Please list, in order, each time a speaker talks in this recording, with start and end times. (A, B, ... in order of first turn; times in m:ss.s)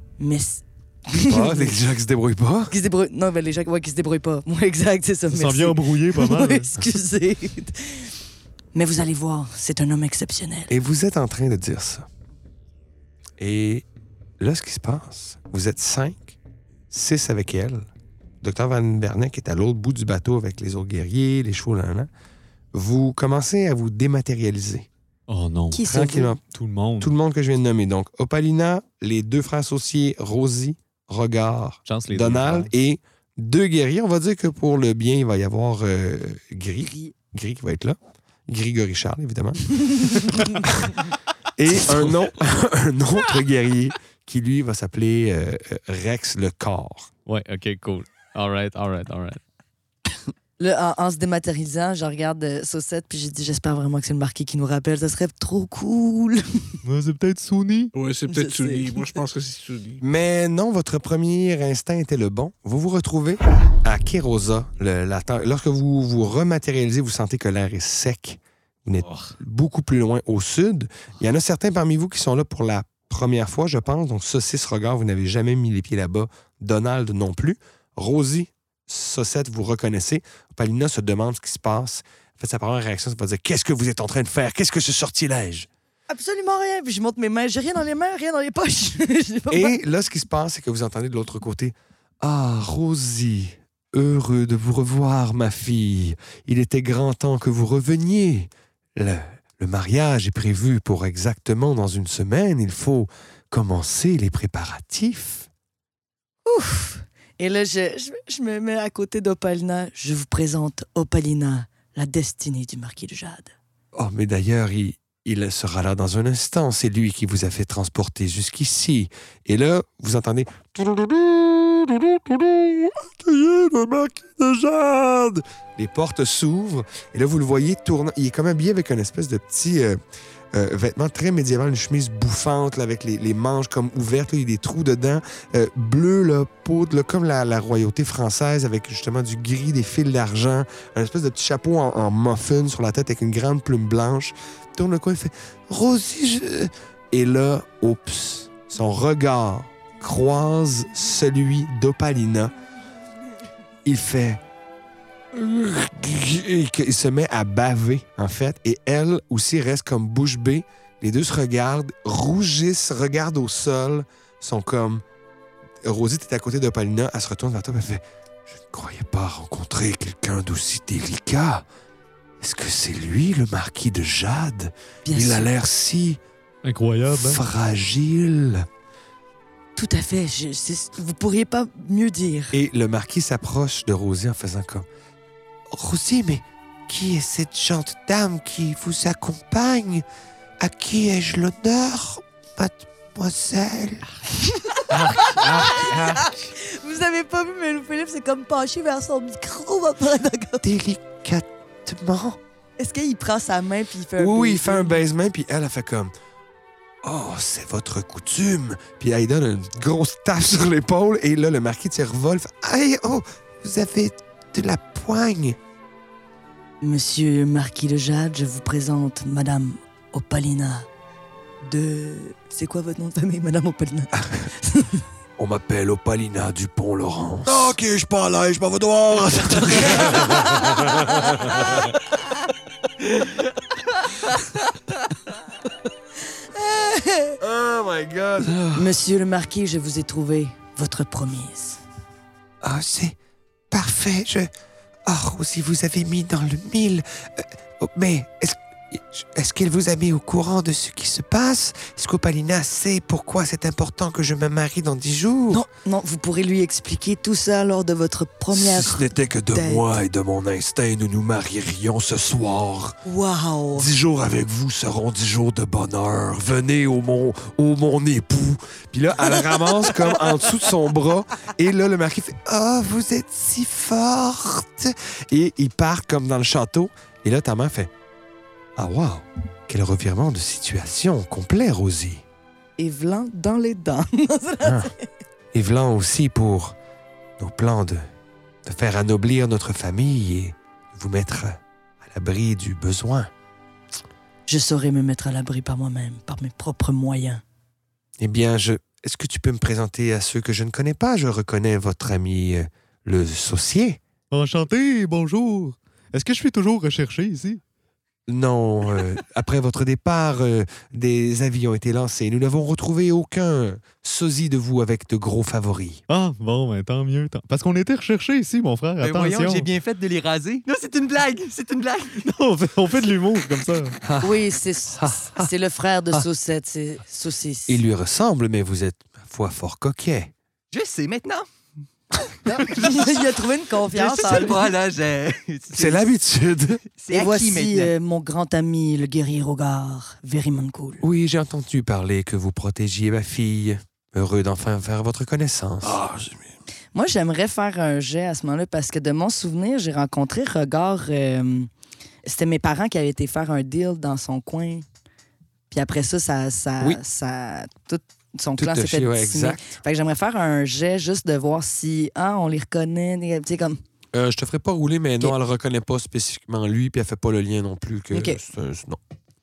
0:00.2-0:01.8 A
0:01.2-0:02.7 B
0:02.7-0:08.1 A
0:05.3-0:06.7 C
0:08.7-0:10.7 A
0:10.7-0:12.1 B
0:13.4-0:13.8 B
0:14.4-0:16.4 B
0:16.9-0:17.9 B
0:18.4-0:22.1 B
0:22.7-0:24.9 B
0:25.3-0:25.7 C
0:25.7-0:26.3 A
0:25.8-0:26.4 B
0:26.5-0:27.1 C
0:27.0-0:47.1 B
0:31.9-0:32.7 D
0:36.8-0:37.1 A
0:47.3-0:49.4 D
0:50.6-0:56.6 A
0:56.8-0:57.9 C
0:58.0-1:00.0 E
0:58.3-0:59.2 A
1:00.0-1:25.7 B
1:26.1-1:29.8 A
1:29.5-1:45.5 B
1:46.4-1:53.5 A
1:53.9-2:10.0 B
2:10.5-2:32.5 B
2:33.8-2:34.4 B
2:35.3-2:45.0 B
2:45.8-2:51.7 B
2:52.4-2:56.2 B
2:55.0-2:55.5 A
2:56.6-2:57.4 C
2:57.1-2:58.7 B
2:59.8-3:02.6 A
3:02.5-3:04.9 B
3:05.7-3:10.0 B
3:10.6-3:14.1 B
3:14.5-3:20.6 A
3:14.9-3:16.5 B
3:20.6-3:22.4 B
3:22.8-3:25.0 A
3:24.2-3:26.1 B
3:27.0-3:35.6 B
3:36.8-3:40.9 A
3:41.6-3:45.0 A
3:45.4-3:47.7 B
3:47.5-3:51.0 F
3:49.9-3:51.9 B
3:56.5-3:57.4 A
3:57.4-3:58.7 B
3:58.7-4:01.8 A
4:02.6-4:03.2 B
4:03.7-4:04.5 B
4:05.1-4:15.6 B
4:15.5-4:19.8 A
4:18.5-4:23.0 B
4:23.0-4:23.9 A
4:23.7-4:37.9 B
4:38.8-4:42.2 B
4:42.8-4:45.1 A
4:44.6-4:44.9 B
4:45.5-4:46.8 B
4:47.4-4:48.0 B
4:48.6-4:53.3 B
4:54.5-4:57.4 A
4:58.2-5:04.0 B
5:04.3-5:07.6 C
5:08.3-5:16.0 B
5:16.1-5:19.7 C
5:19.0-5:22.2 G
5:22.2-5:24.0 C
5:24.2-5:27.8 A
5:25.0-5:25.5 B
5:27.7-5:30.3 B
5:30.7-5:31.5 G
5:32.4-5:34.7 A
5:32.6-5:33.2 G
5:33.9-5:36.1 G
5:35.7-5:36.8 B
5:37.0-5:37.9 G
5:37.1-5:41.0 A
5:41.0-5:46.0 B
5:45.8-5:46.6 F
5:46.9-5:51.7 A
5:52.2-5:54.8 A
5:55.7-6:03.8 A
5:58.6-5:59.8 B
6:04.1-6:09.0 B
6:08.1-6:08.4 A